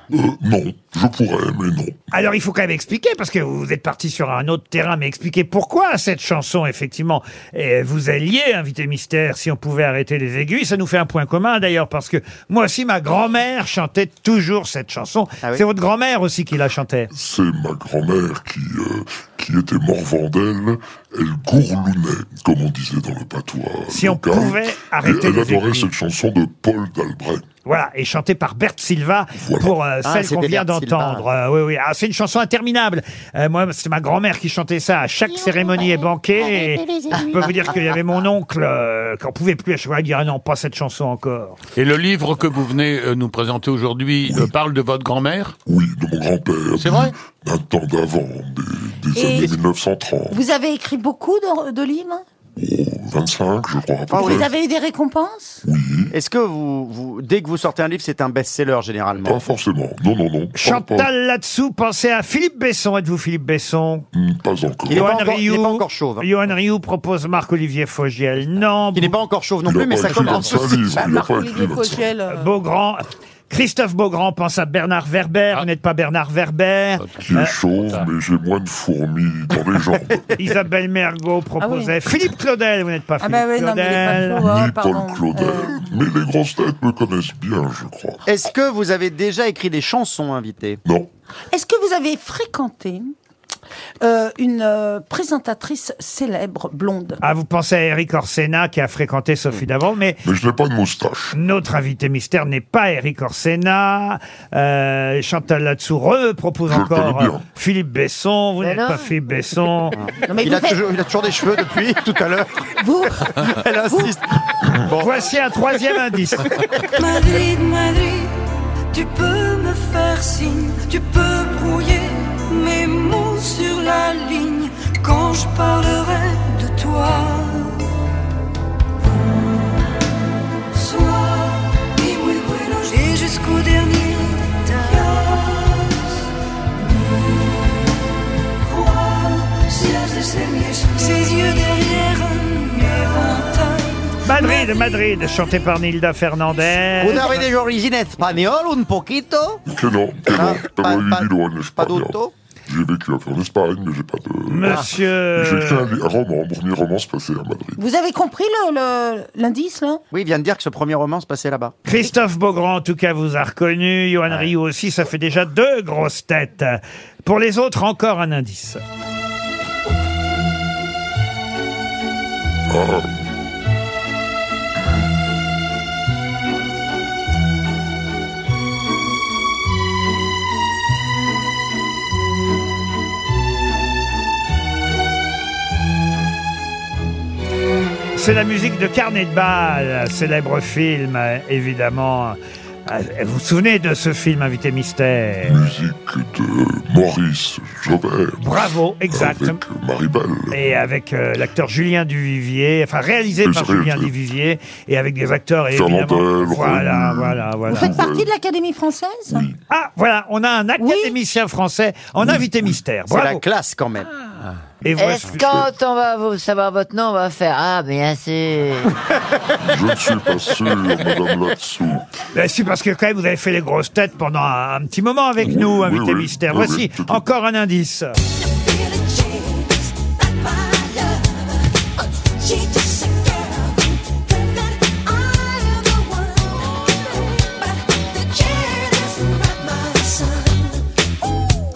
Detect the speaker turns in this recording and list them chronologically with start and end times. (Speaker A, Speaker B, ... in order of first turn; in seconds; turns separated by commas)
Speaker A: 0.1-2.0, Speaker B: 2.1-17.1, Speaker A: 17.1-27.4, Speaker B: 23.9-25.9, Speaker B: 27.6-41.6, Speaker A: 29.4-29.7, Speaker C: 30.0-31.3, Speaker D: 35.3-37.5, Speaker E: 41.8-45.5, Speaker A: 44.2-44.5, Speaker A: 45.6-50.4, Speaker E: 46.8-47.1, Speaker D: 49.1-49.5, Speaker D: 50.3-52.2, Speaker A: 52.6-54.5, Speaker C: 54.1-54.5, Speaker D: 54.1-55.6, Speaker A: 55.6-56.1, Speaker C: 56.1-59.4, Speaker A: 59.2-61.1, Speaker B: 60.6-64.0, Speaker A: 64.1-65.1, Speaker C: 64.9-66.3, Speaker B: 64.9-69.2, Speaker C: 68.9-70.9, Speaker A: 69.6-72.1, Speaker D: 70.1-72.5, Speaker B: 72.3-77.5, Speaker E: 77.0-78.1, Speaker A: 77.2-80.2, Speaker B: 80.4-84.5, Speaker D: 81.6-81.9, Speaker D: 83.2-85.8, Speaker A: 84.3-88.2, Speaker C: 88.2-90.8, Speaker A: 90.8-91.1, Speaker D: 91.5-93.1, Speaker D: 94.0-97.2, Speaker B: 97.2-100.2, Speaker A: 100.2-101.4, Speaker B: 101.3-110.0, Speaker A: 106.7-107.5, Speaker F: 108.6-109.1, Speaker C: 109.9-112.7, Speaker D: 110.3-110.8, Speaker D: 112.8-113.3, Speaker C: 113.3-115.3, Speaker B: 115.0-116.5, Speaker G: 117.0-127.9, Speaker G: 129.0-129.8, Speaker G: 130.7-136.2, Speaker G: 136.8-137.9, Speaker G: 138.6-144.6, Speaker B: 144.2-147.4, Speaker C: 147.0-149.6, Speaker A: 149.7-157.8, Speaker C: 150.2-152.3, Speaker B: 154.5-155.9, Speaker D: 157.8-160.0, Speaker C: 160.1-161.7, Speaker B: 161.8-168.8, Speaker A: 172.7-173.1, Speaker B: 188.2-195.6, Speaker A: 195.4-200.8, Speaker B: 198.4-199.6, Speaker B: 200.5-207.9, Speaker A: 203.4-204.1, Speaker A: 205.7-208.3, Speaker D: 207.7-209.4, Speaker A: 209.3-209.6, Speaker B: 209.7-213.4, Speaker D: 210.8-211.1, Speaker A: 212.2-212.8, Speaker C: 213.1-214.1, Speaker B: 214.8-215.7, Speaker F: 215.0-218.9, Speaker A: 219.6-222.1, Speaker B: 222.3-228.1, Speaker A: 225.4-227.3, Speaker G: 228.7-229.6, Speaker G: 232.5-233.7, Speaker G: 238.2-240.3